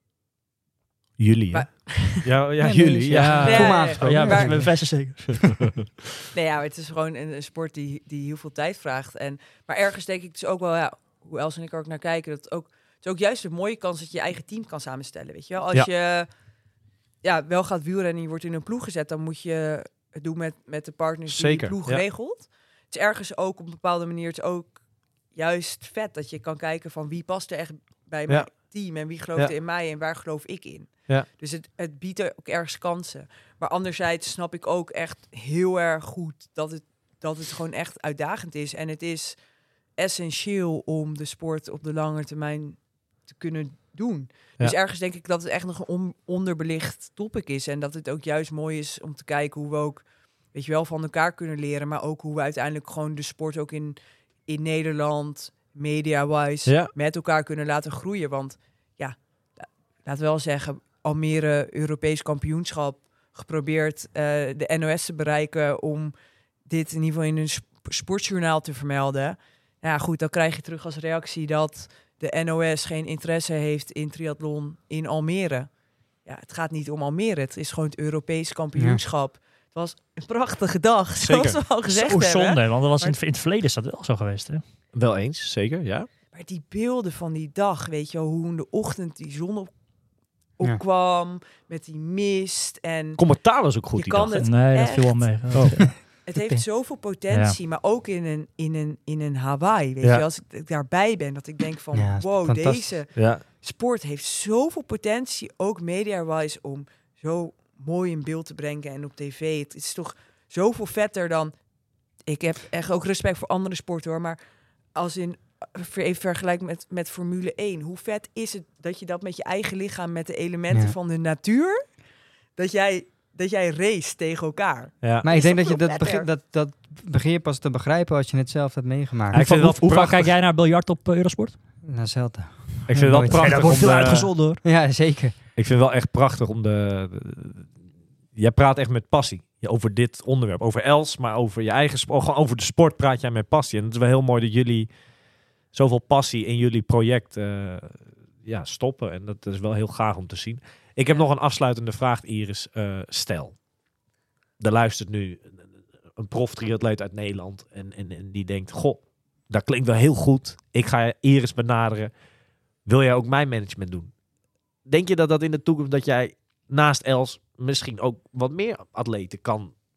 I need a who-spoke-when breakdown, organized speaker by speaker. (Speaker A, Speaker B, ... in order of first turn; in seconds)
Speaker A: 1.2-4.2, 21.3-22.1, 28.3-28.7, 56.6-56.9, 81.2-81.6, 84.9-86.1, 93.2-94.5, 95.5-95.9, 103.1-103.4, 125.0-125.3, 129.3-130.3, 132.9-134.6, 135.6-137.8, 138.3-145.1, 145.7-153.6, 154.6-162.1, 162.8-164.1, 164.8-169.8
Speaker B: 1.5-2.3, 3.5-4.7, 6.3-16.3, 17.2-83.2, 86.3-89.7, 90.6-111.7, 112.2-114.4, 114.9-122.0, 122.5-126.3
Speaker C: 2.6-4.7, 78.8-79.0, 101.9-103.0, 120.7-121.0, 125.2-129.4, 131.8-135.4
Speaker D: 3.1-5.9, 81.9-84.6, 94.4-97.6, 129.3-131.6, 133.3-134.6